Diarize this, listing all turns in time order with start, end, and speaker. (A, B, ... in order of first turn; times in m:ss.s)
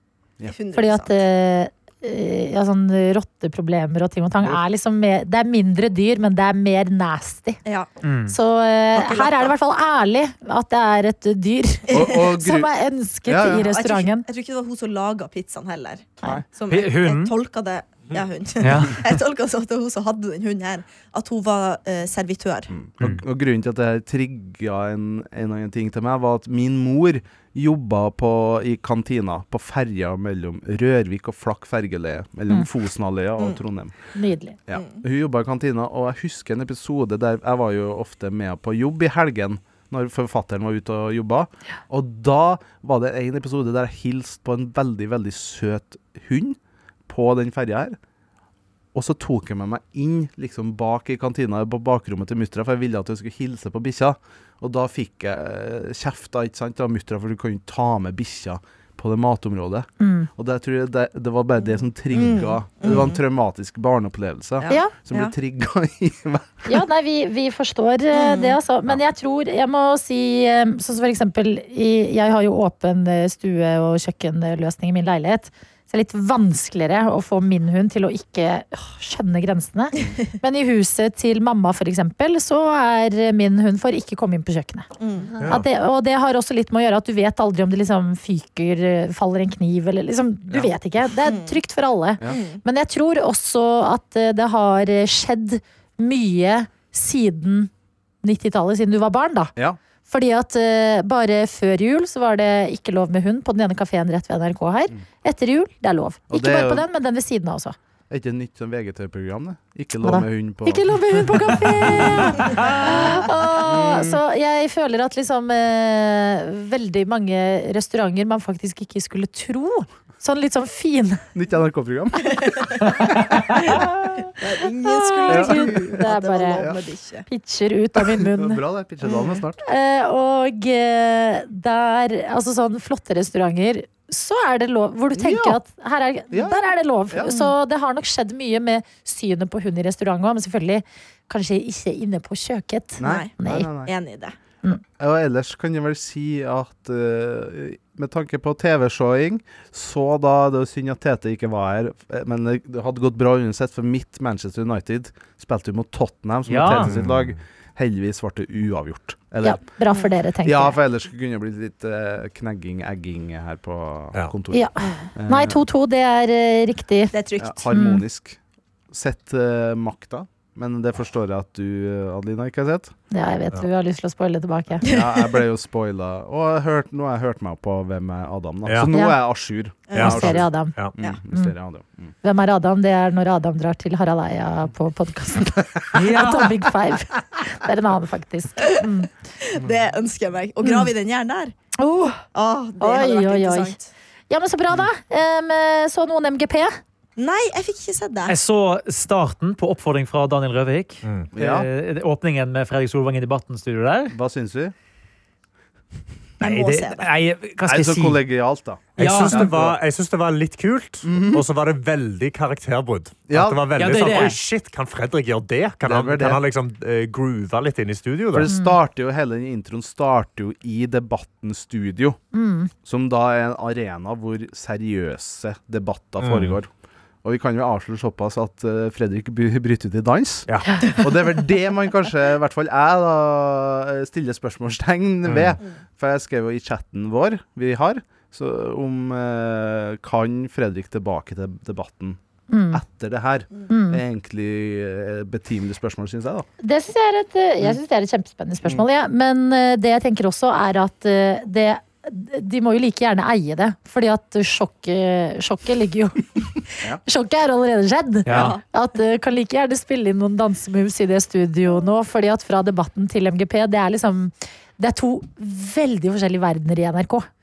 0:00.4-0:01.2 A
0:00.7-0:07.6 B
0:08.0-0:08.4 C
0:08.3-0:14.2 B
0:08.9-0:09.5 A
0:11.9-0:12.7 D
0:11.9-0:12.2 A
0:13.2-0:13.7 D
0:13.5-0:22.7 A
0:16.7-0:17.3 C
0:18.6-0:19.1 C
0:22.7-0:33.9 D
0:34.1-0:34.6 B
0:34.7-0:48.0 D
0:34.7-0:35.0 A
0:48.9-1:06.8 D
1:00.0-1:00.3 B
1:02.1-1:03.2 A
1:04.6-1:05.3 A
1:06.7-1:24.9 B
1:08.1-1:08.6 A
1:25.0-1:25.4 A
1:25.4-1:37.7 B
1:31.2-1:31.6 A
1:32.2-1:32.6 A
1:38.2-1:39.5 B
1:40.0-1:47.8 B
1:46.3-1:46.8 D
1:48.1-1:52.7 D
1:50.0-2:01.2 B
1:53.6-1:54.2 D
2:01.3-2:03.8 D
2:02.3-2:03.0 A
2:03.6-2:07.2 A
2:03.7-2:04.3 B
2:04.8-2:06.6 B
2:05.3-2:05.9 D
2:07.3-2:08.6 B
2:08.0-2:09.6 D
2:09.0-2:09.4 A
2:09.6-2:23.7 B
2:15.1-2:15.6 D
2:16.3-2:17.4 D
2:23.0-2:23.9 D
2:23.0-2:24.3 A
2:25.0-2:39.6 D
2:36.5-2:36.9 C
2:36.7-2:37.4 E
2:39.4-2:40.8 B
2:40.4-2:45.6 D
2:44.5-2:47.1 B
2:47.1-2:47.6 A
2:47.4-2:48.4 D
2:47.7-2:48.0 B
2:48.9-2:52.9 D
2:53.1-2:54.8 B
2:54.8-3:02.1 D
2:54.8-2:55.4 A
2:58.6-2:58.9 E
2:59.9-3:00.2 A
2:59.9-3:00.8 B
3:00.0-3:00.9 E
3:02.2-3:09.1 B
3:05.9-3:06.6 C
3:09.4-3:11.5 A
3:10.6-3:10.9 B
3:11.8-3:12.2 B
3:12.3-3:13.9 A
3:12.8-3:13.7 B
3:14.3-3:16.8 B
3:17.2-3:18.3 A
3:18.3-3:24.2 C
3:21.0-3:21.3 E
3:21.3-3:21.7 D
3:24.1-3:24.7 D
3:26.4-3:27.1 A
3:26.4-3:28.2 C
3:27.6-3:29.8 D
3:29.0-3:38.5 E
3:29.0-3:29.5 C
3:31.0-3:31.4 D
3:33.3-3:33.7 D
3:33.8-3:34.4 C
3:35.8-3:36.4 D
3:38.3-3:42.2 D
3:38.5-3:38.8 B
3:42.3-3:42.7 B
3:42.8-3:46.7 D
3:46.2-3:46.6 E
3:47.2-4:02.2 D
3:50.5-3:50.8 E
3:55.2-3:55.6 E
4:02.5-4:02.8 B
4:02.7-4:06.5 D
4:03.7-4:04.0 B
4:06.6-4:27.2 B
4:18.2-4:18.6 C
4:18.3-4:18.6 A